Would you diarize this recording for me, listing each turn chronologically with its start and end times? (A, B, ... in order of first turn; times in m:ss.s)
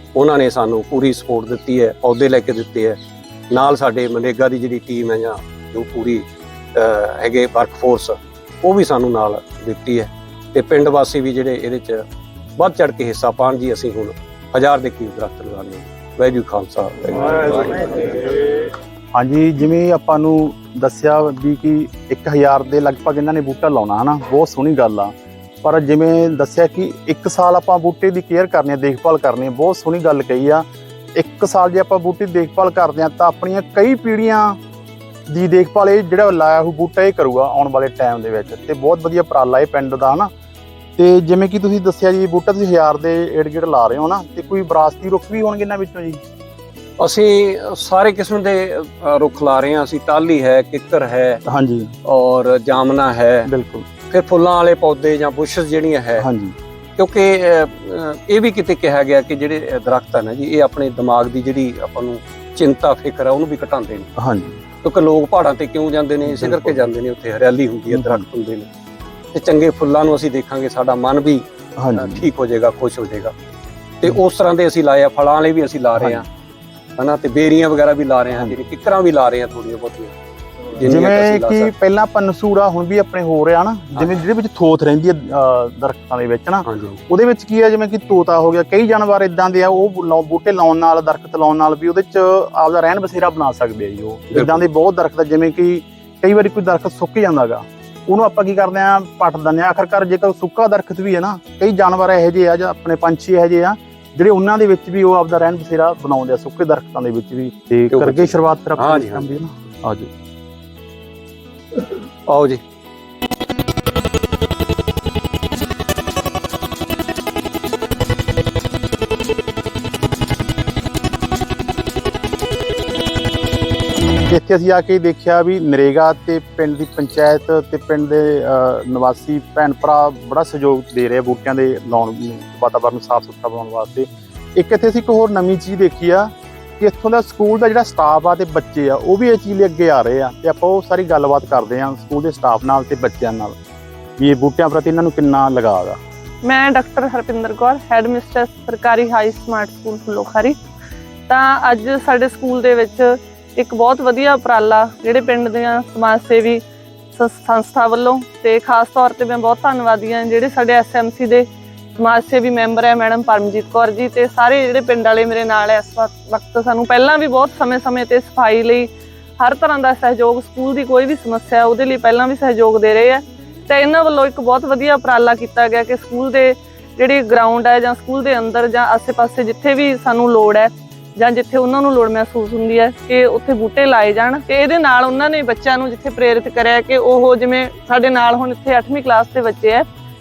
0:00.2-0:03.0 A
0:03.5-0:06.2 A
0:06.8-0:12.0 A
0:12.6-0:18.4 A
0:19.1-0:30.6 B
0:31.2-0:34.6 B
0:35.3-0:40.3 B
0:41.0-0:46.2 B
0:47.0-0:51.4 A
0:51.5-0:51.9 B
0:52.1-0:53.5 A
0:53.5-0:53.9 B
0:54.1-0:56.3 A
0:56.2-0:56.6 B
0:57.0-1:04.1 A
1:04.2-1:04.6 B
1:04.8-1:08.7 A
1:06.2-1:06.8 B
1:07.9-1:08.2 B
1:09.3-1:11.4 A
1:11.8-1:12.3 B
1:12.0-1:13.3 A
1:14.0-1:16.3 A
1:16.0-1:16.2 B
1:17.0-1:20.1 A
1:20.8-1:21.7 A
1:20.8-1:50.1 B
1:26.7-1:27.0 A
1:34.3-1:34.6 A
1:47.9-1:49.3 A
1:51.8-1:52.6 A
2:04.3-2:23.6 B
2:24.2-2:26.0 B
2:26.4-2:30.6 C
2:31.3-2:36.6 C
2:37.2-2:41.5 C
2:42.0-3:09.9 C